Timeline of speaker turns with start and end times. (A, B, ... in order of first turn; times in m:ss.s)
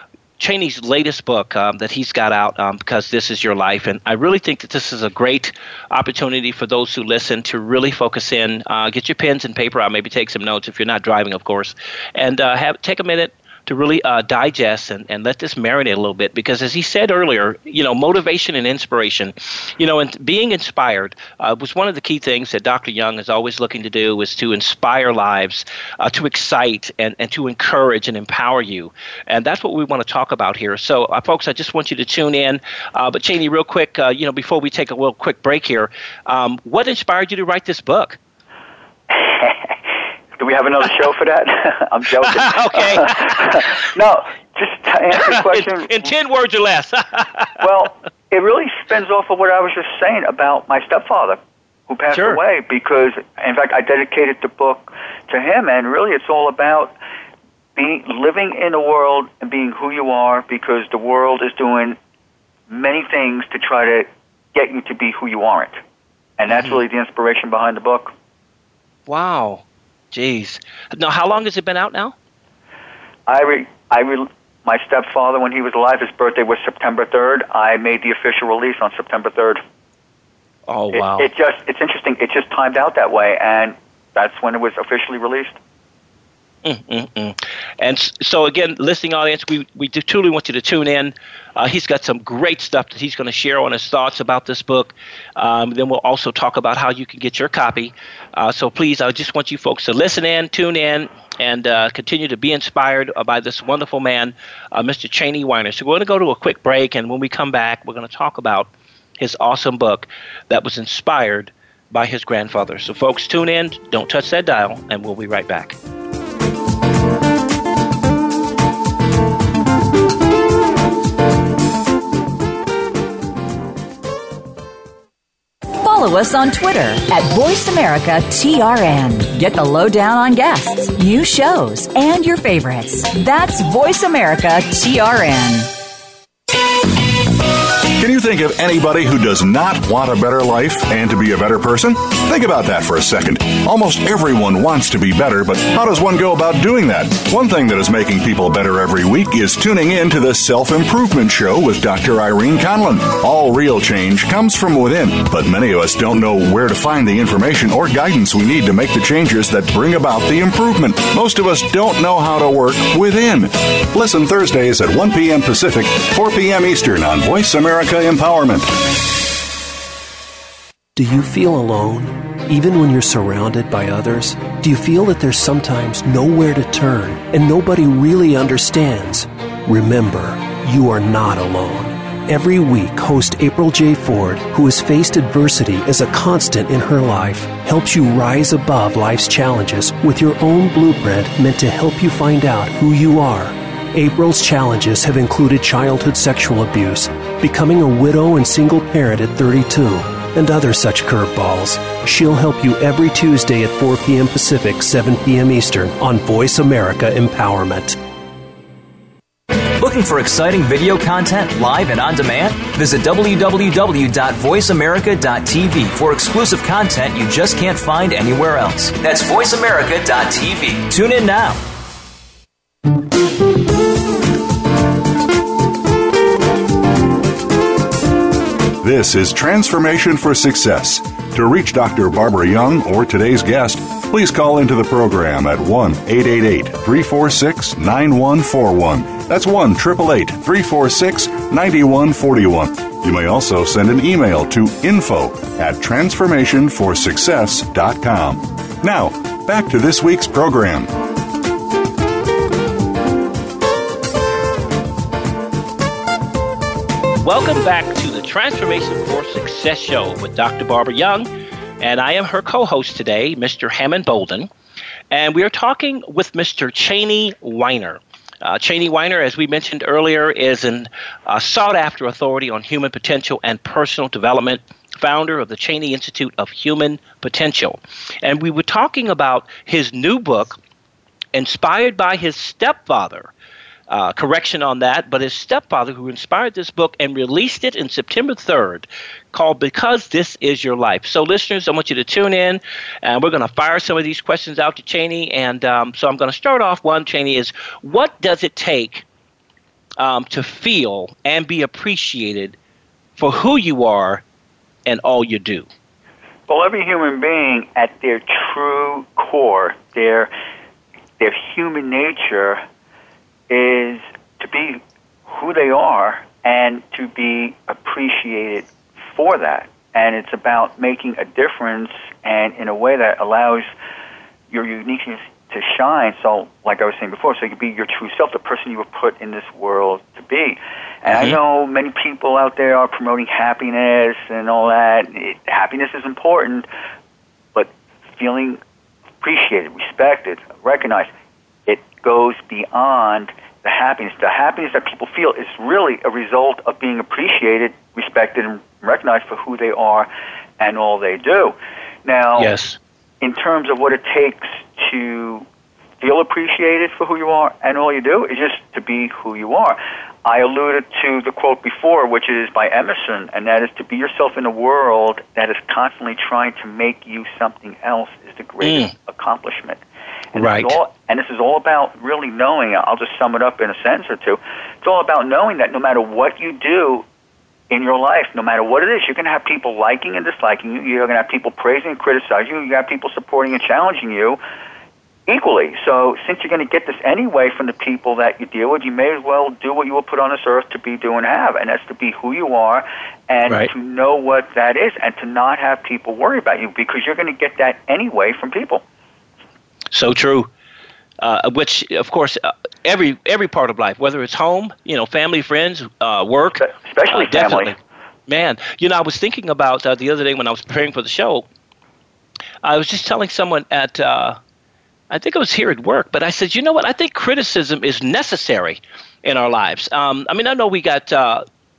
0:00.4-0:38.2 A
0:39.1-0:39.8 B
0:40.4-0:46.1 B
0:42.2-0:43.8 A
0:45.1-0:47.6 A
0:47.6-0:57.0 B
0:52.1-0:52.4 A
0:57.8-1:02.0 B
1:02.7-1:05.8 B
1:06.4-1:08.1 B
1:06.5-1:06.8 A
1:09.1-1:12.2 A
1:13.3-1:19.6 B
1:20.7-1:21.3 A
1:20.9-1:25.6 B
1:26.6-1:55.8 A
2:05.8-2:15.7 C
2:17.9-2:48.8 D
2:51.0-3:28.0 E
3:29.7-3:41.6 F
3:48.8-4:10.9 D
4:17.2-4:21.3 A
4:21.8-4:24.5 A
4:25.1-4:40.6 A
4:41.3-4:43.3 A
4:43.9-4:59.0 A
5:00.0-5:02.6 A
5:03.2-5:04.2 A
5:04.9-5:05.7 A
5:06.5-5:10.3 B
5:11.2-5:12.6 B
5:13.5-5:23.7 B
5:24.5-5:36.7 B
5:31.1-5:31.4 A
5:37.6-5:38.6 B
5:39.2-5:41.1 B
5:41.7-5:52.5 B
5:52.4-5:52.8 A
5:53.2-5:55.4 B
5:56.0-6:09.8 B
6:08.6-6:08.9 A
6:10.3-6:17.0 B
6:10.4-6:10.8 A
6:17.7-6:24.4 B
6:25.3-6:38.8 B
6:39.9-6:40.5 A
6:41.2-6:47.8 A
6:46.6-6:47.8 B
6:48.3-6:51.5 A
6:52.6-6:54.4 A
6:55.1-7:01.4 A